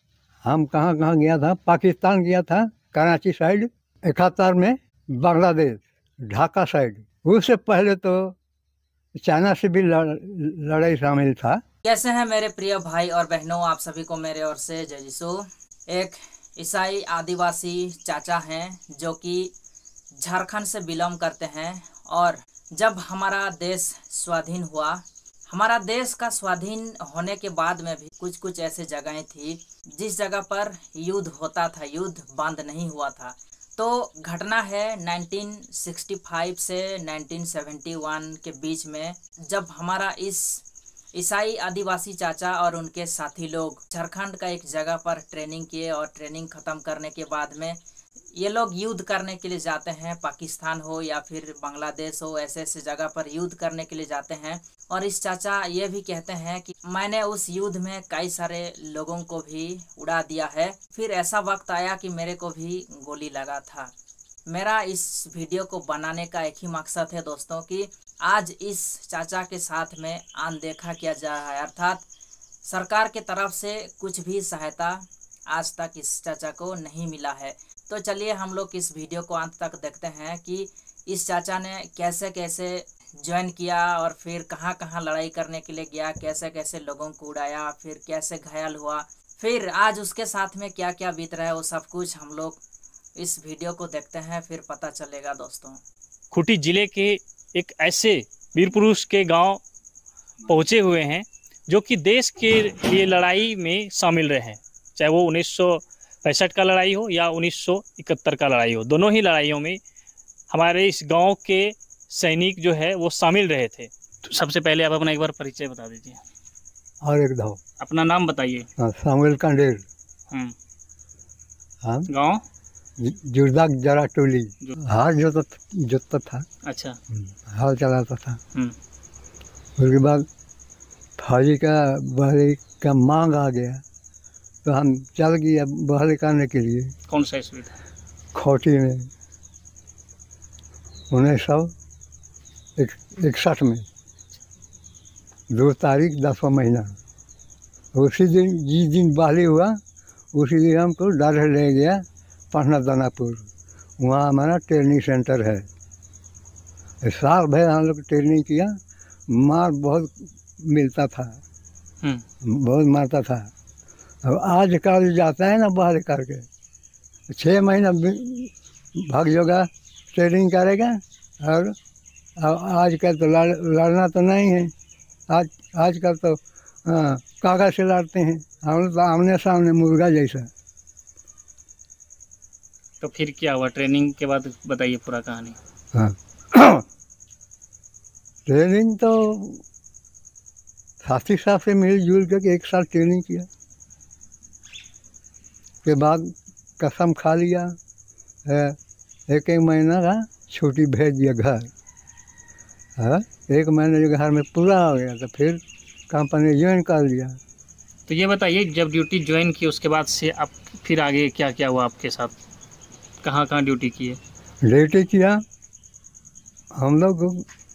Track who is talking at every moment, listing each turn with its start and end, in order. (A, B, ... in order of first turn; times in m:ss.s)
0:00.4-0:08.4 A
0:09.2-0:11.6 A
0:11.8-0:19.5 B
0:20.1-0:40.6 B
0:41.1-0:47.8 B
0:48.4-1:03.9 B
1:04.5-1:12.0 B
1:12.7-1:32.6 B
1:33.2-1:35.8 B
1:36.3-1:39.6 C
1:40.4-1:49.8 C
1:50.5-1:56.2 C
1:57.0-1:57.6 A
1:57.8-1:58.7 C
1:58.8-1:59.8 A
2:01.8-2:02.1 A
2:02.1-2:02.4 C
2:03.0-2:06.4 A
2:06.6-2:07.0 C
2:07.1-2:08.4 A
2:09.8-2:10.2 A
2:11.2-2:13.8 A
2:14.6-2:16.9 A
2:17.1-2:17.8 C
2:18.3-2:19.1 A
2:21.1-2:21.7 A
2:22.8-2:23.8 A
2:25.5-2:26.9 A
2:27.9-2:29.8 A
2:30.3-2:33.5 A
2:34.0-2:35.6 A
2:37.0-2:38.7 A
2:39.3-2:41.4 A
2:42.4-2:43.5 A
2:44.2-2:46.4 A
2:47.3-2:51.7 A
2:52.4-2:54.7 A
2:55.3-3:00.5 A
3:03.0-3:05.6 C
3:05.9-3:06.8 A
3:08.5-3:09.6 A
3:11.0-3:13.5 A
3:15.8-3:17.7 A
3:18.4-3:18.8 A
3:19.3-3:21.7 A
3:23.0-3:27.4 A
3:28.1-3:32.3 C
3:33.2-3:34.2 C
3:34.6-3:35.4 A
3:36.8-3:37.4 A